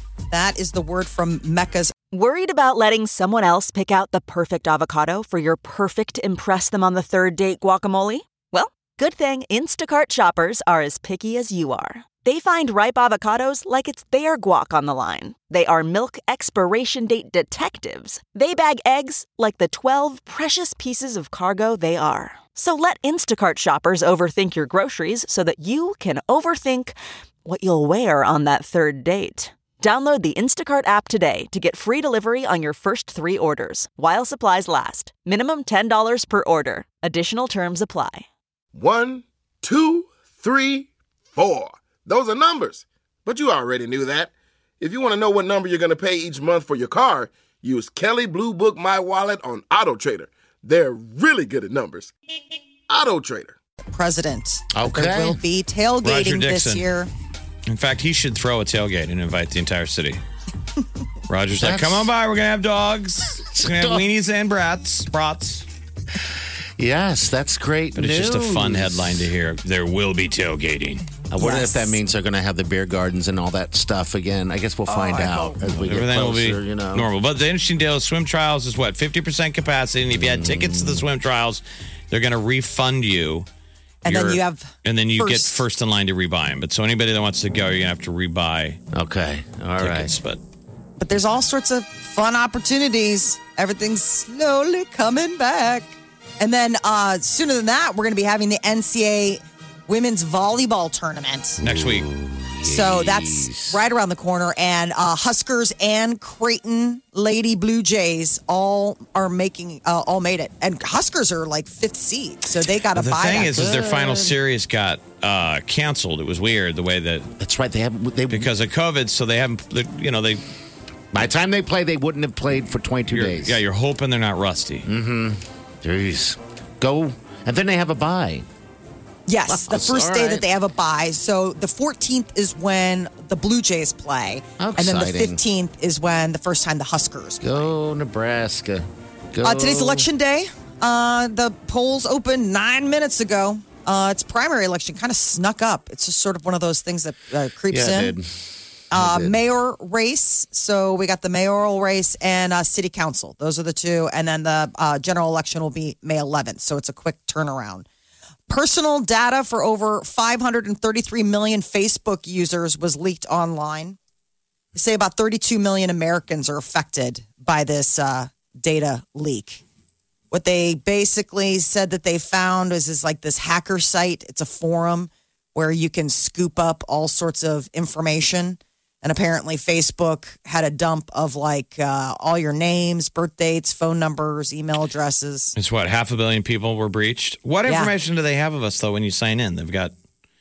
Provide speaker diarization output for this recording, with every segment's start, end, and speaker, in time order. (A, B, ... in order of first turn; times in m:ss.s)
0:00.3-0:01.9 A
0:02.1-0:38.3 B
0:38.7-0:52.1 C
0:52.9-0:53.6 C
0:53.9-0:57.1 A
0:54.7-0:55.4 D
0:56.0-0:56.9 E
0:57.7-1:00.2 E
1:01.3-1:05.7 E
1:01.6-1:02.1 D
1:03.4-1:04.1 D
1:06.8-1:09.2 D
1:08.0-1:11.0 E
1:11.3-1:17.1 D
1:11.4-1:11.9 A
1:14.9-1:15.5 A
1:15.6-1:23.5 E
1:20.1-1:21.1 D
1:24.0-1:25.6 A
1:24.1-1:28.8 E
1:28.9-1:30.1 D
1:29.8-1:30.4 E
1:31.0-1:41.6 A
1:41.6-1:43.8 D
1:41.6-1:42.1 E
1:42.6-1:53.7 A
1:52.9-1:57.3 E
1:53.4-1:54.4 D
1:57.4-1:58.5 D
1:58.3-2:00.4 E
2:01.1-2:03.6 D
2:03.1-2:04.9 E
2:04.8-2:08.5 D
2:09.3-2:17.6 A
2:09.5-2:10.5 D
2:14.6-2:15.4 D
2:17.4-2:20.1 D
2:19.4-2:28.2 A
2:27.7-2:29.4 D
2:28.9-2:37.9 A
2:38.5-2:44.0 A
2:44.8-2:49.6 A
2:50.3-3:05.6 A
3:05.6-3:09.9 E